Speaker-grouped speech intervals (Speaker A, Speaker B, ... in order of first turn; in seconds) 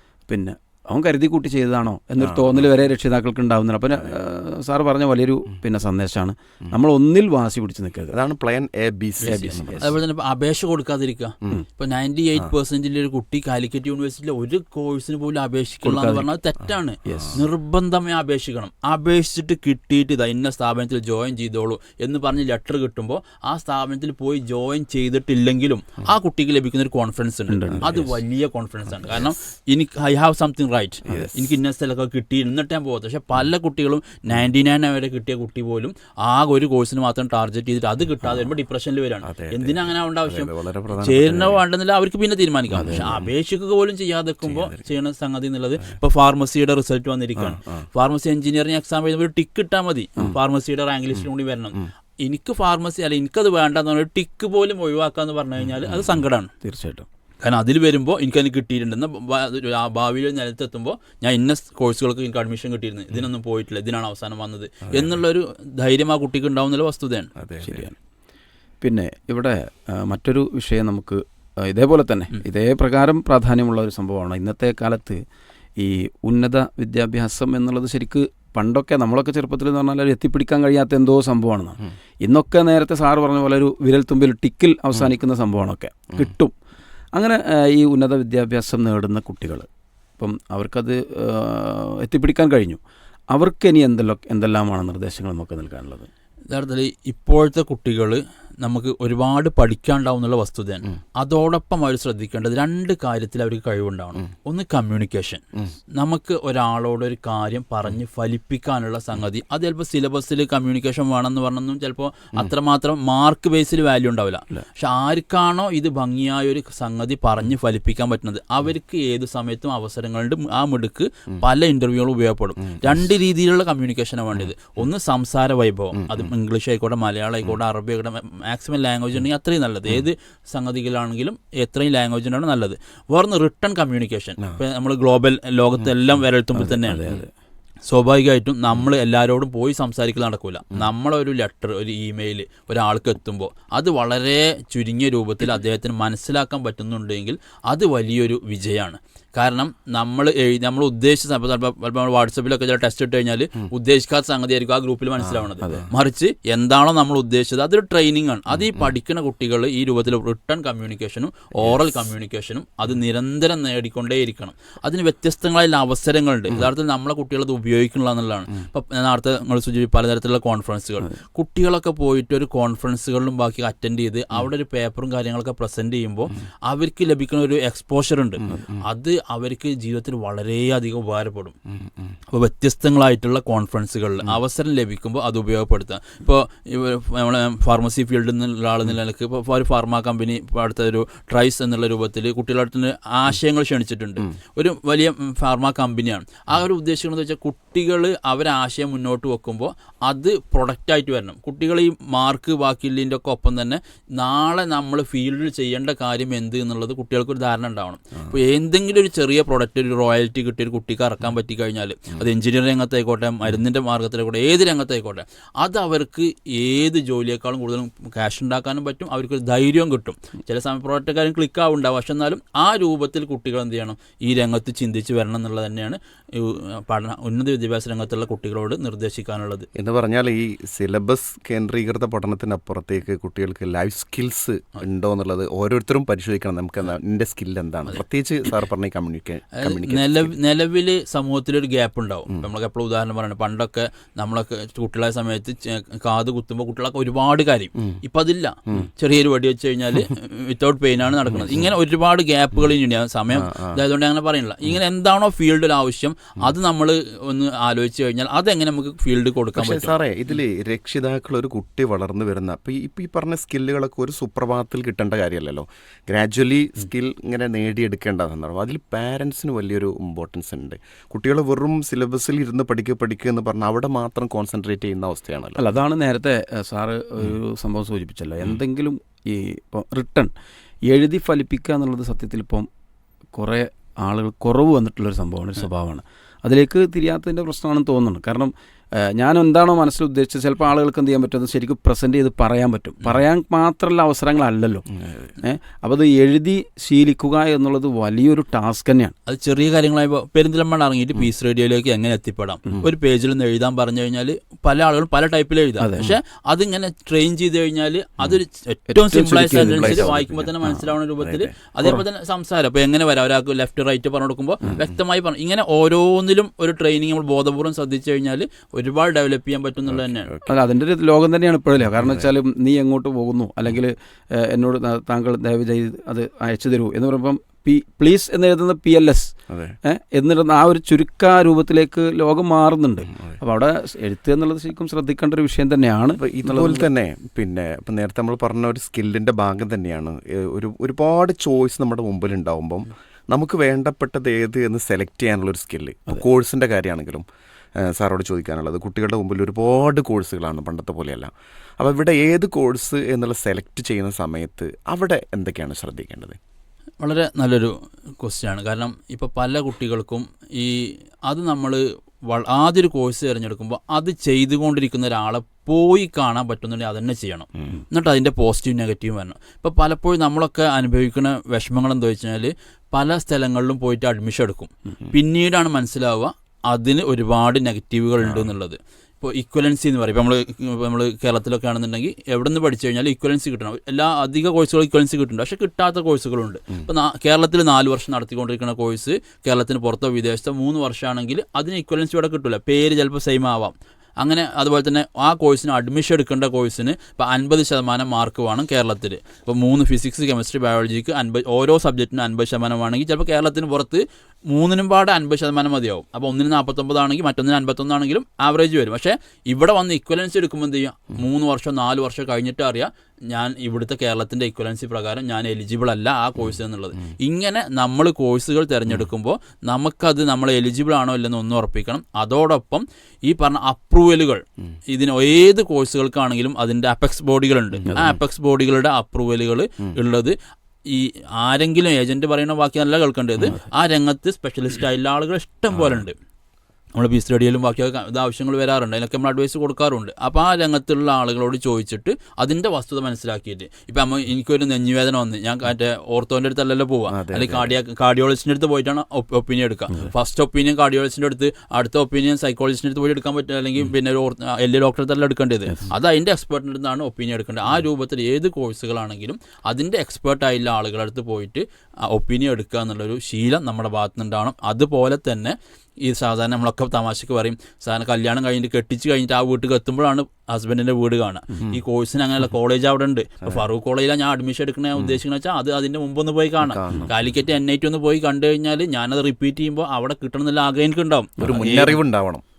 Speaker A: 0.3-8.2, 9.2-10.0, 15.8-16.3, 17.1-17.4, 27.5-28.2, 31.1-31.3, 42.7-43.1, 56.6-57.1, 67.6-67.9, 68.8-75.2, 75.8-86.5, 87.1-89.7, 90.2-92.8, 93.3-96.1, 136.5-137.3, 155.6-155.9, 275.6-280.3, 280.9-282.7, 283.3-294.9, 295.4-299.1, 305.8-306.1, 308.9-310.9, 320.5-336.9
Speaker B: 2.2-2.7, 8.1-9.9, 39.2-41.6, 42.8-43.3, 44.4-44.9, 47.4-47.9, 67.3-67.9, 122.6-122.9, 126.0-126.3, 155.2-155.9, 161.6-162.0, 178.4-178.8, 181.7-182.1, 229.7-240.3, 253.3-253.8, 259.5-275.6, 294.9-295.3, 309.5-310.5, 311.2-311.5, 314.7-314.9, 319.9-320.6, 322.0-322.2, 329.5-329.8, 333.1-333.4, 336.2-347.2, 347.8-356.4, 378.2-378.5, 427.9-428.2, 435.7-436.0, 447.1-447.8, 476.6-477.2, 481.4-482.4
Speaker C: 9.2-56.5, 57.4-67.3, 96.5-105.4, 105.9-137.0, 137.9-181.5, 182.3-229.7, 239.6-259.9, 299.2-320.3, 357.0-436.1, 436.9-482.0